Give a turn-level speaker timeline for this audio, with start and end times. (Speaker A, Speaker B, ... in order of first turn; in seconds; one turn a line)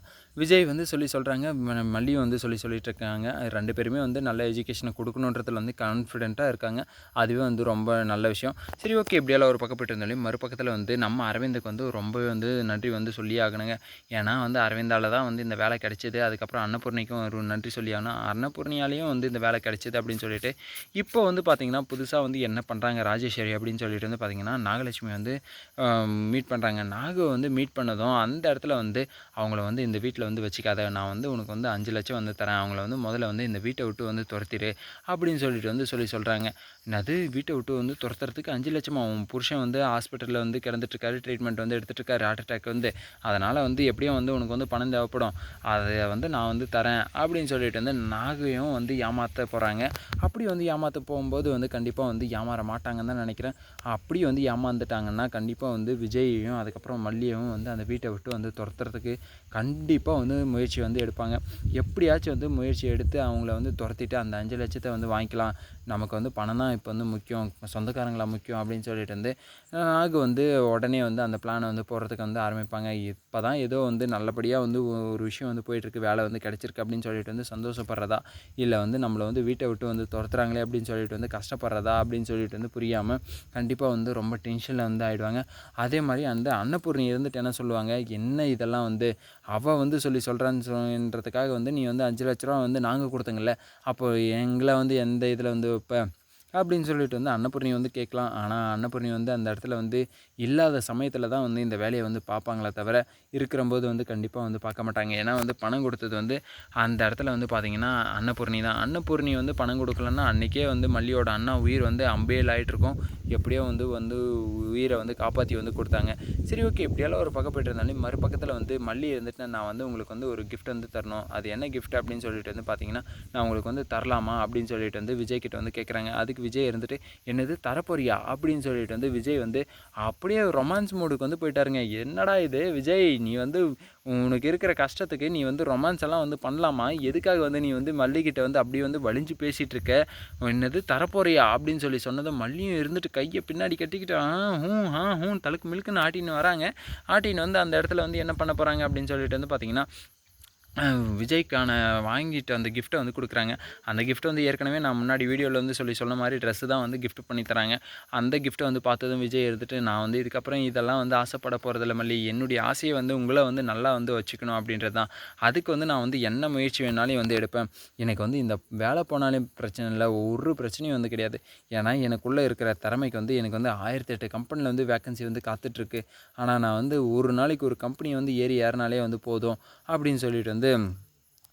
Speaker A: 0.4-96.0
Speaker A: 96.6-149.8
Speaker A: 150.8-180.7